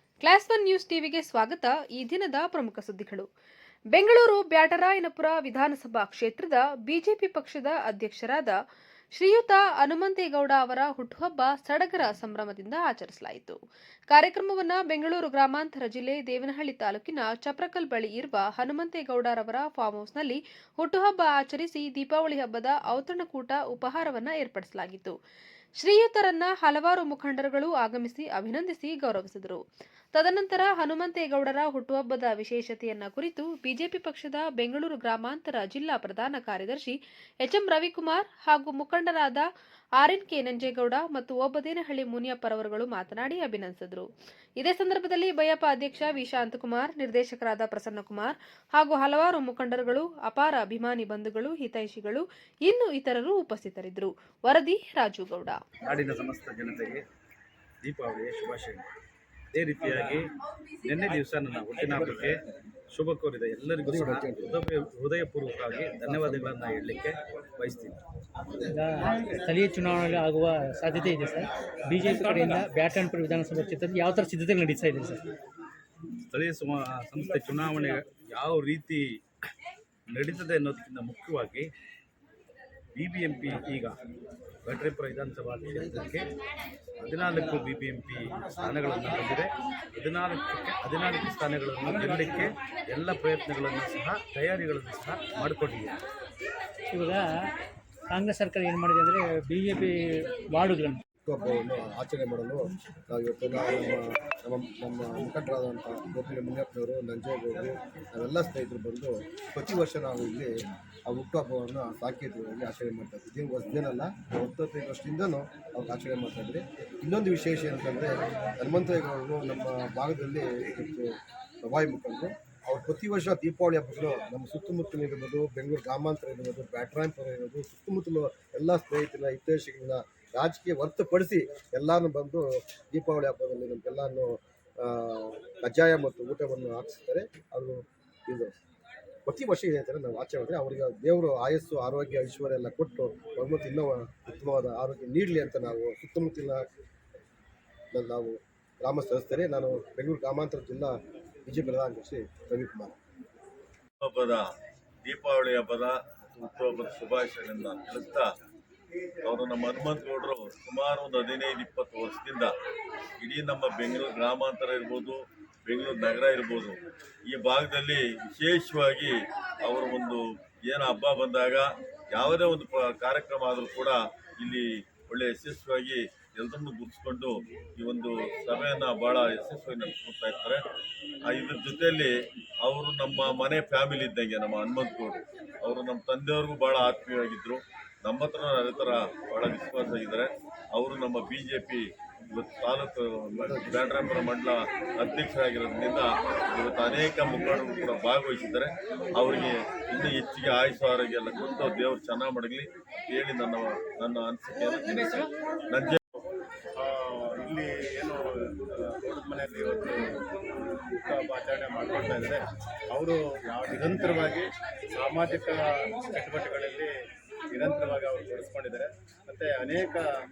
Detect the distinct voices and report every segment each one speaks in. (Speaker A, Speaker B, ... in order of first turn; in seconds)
Speaker A: 0.2-3.3, 3.9-8.5, 9.2-13.6, 14.1-25.1, 25.8-29.6, 30.1-39.5, 40.0-44.1, 44.6-55.6
Speaker B: 55.8-57.0, 57.8-58.8, 59.5-60.3, 60.8-68.0, 76.3-79.0, 80.1-81.7, 83.0-84.0, 84.6-86.2, 87.0-95.9
Speaker C: 63.8-64.6, 66.1-66.5, 101.2-110.5, 111.0-138.6, 139.2-146.6, 147.9-150.9, 151.4-152.9, 193.4-193.8
Speaker D: 68.7-75.2, 96.9-97.3, 98.1-101.0
Speaker E: 154.0-154.4, 155.0-158.3, 159.2-162.5, 163.2-180.6, 181.3-182.1, 182.6-206.0
Speaker F: 206.8-210.0, 210.6-212.4, 212.9-216.9, 217.5-220.1